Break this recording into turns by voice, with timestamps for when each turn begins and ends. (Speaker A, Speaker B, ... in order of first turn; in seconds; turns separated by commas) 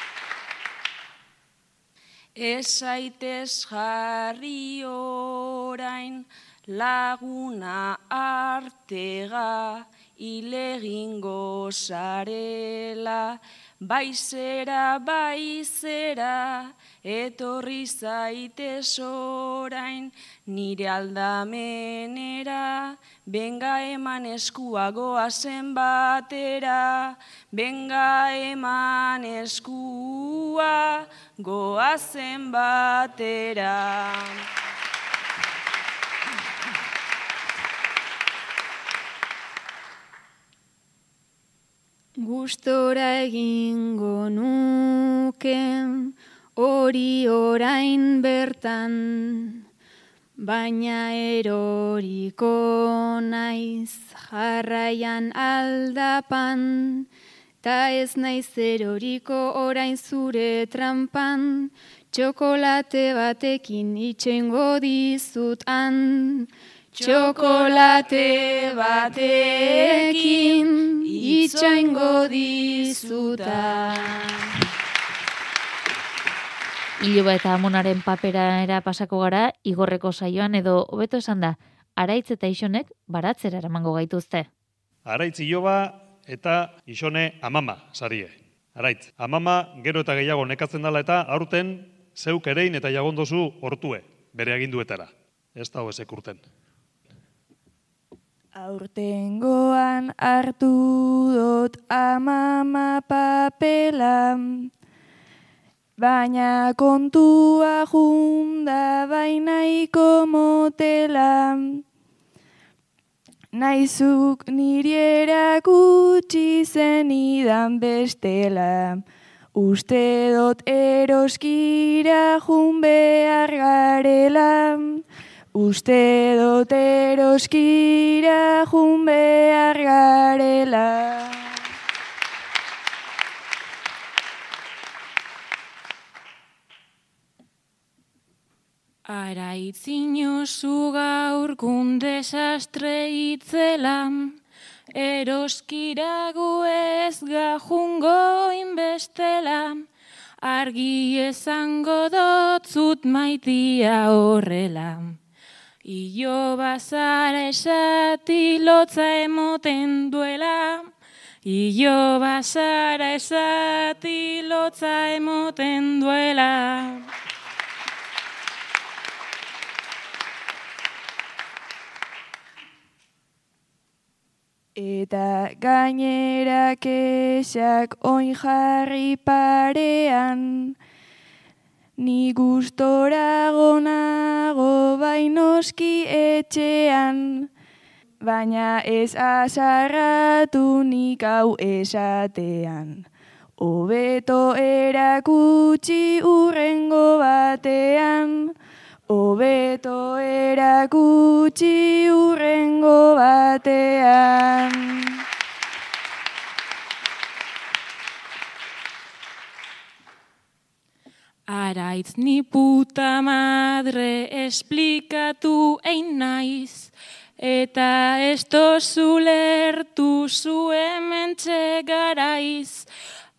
Speaker A: 2.4-34.5, Speaker B: 42.2-49.6, Speaker B: 50.4-57.1, Speaker B: 57.6-74.3, Speaker A: 67.0-74.3, Speaker C: 77.0-84.5, Speaker D: 85.1-96.4, Speaker E: 98.5-104.7, Speaker E: 106.0-111.8, Speaker E: 113.5-119.0, Speaker E: 119.5-125.0, Speaker E: 125.5-131.6, Speaker F: 139.1-144.4, Speaker F: 144.9-149.8, Speaker F: 150.4-155.2, Speaker F: 155.8-160.9, Speaker F: 161.4-167.0, Speaker E: 174.8-180.8, Speaker E: 182.0-187.5, Speaker E: 188.2-193.1, Speaker E: 193.6-198.5, Speaker E: 199.1-205.2, Speaker F: 211.5-222.9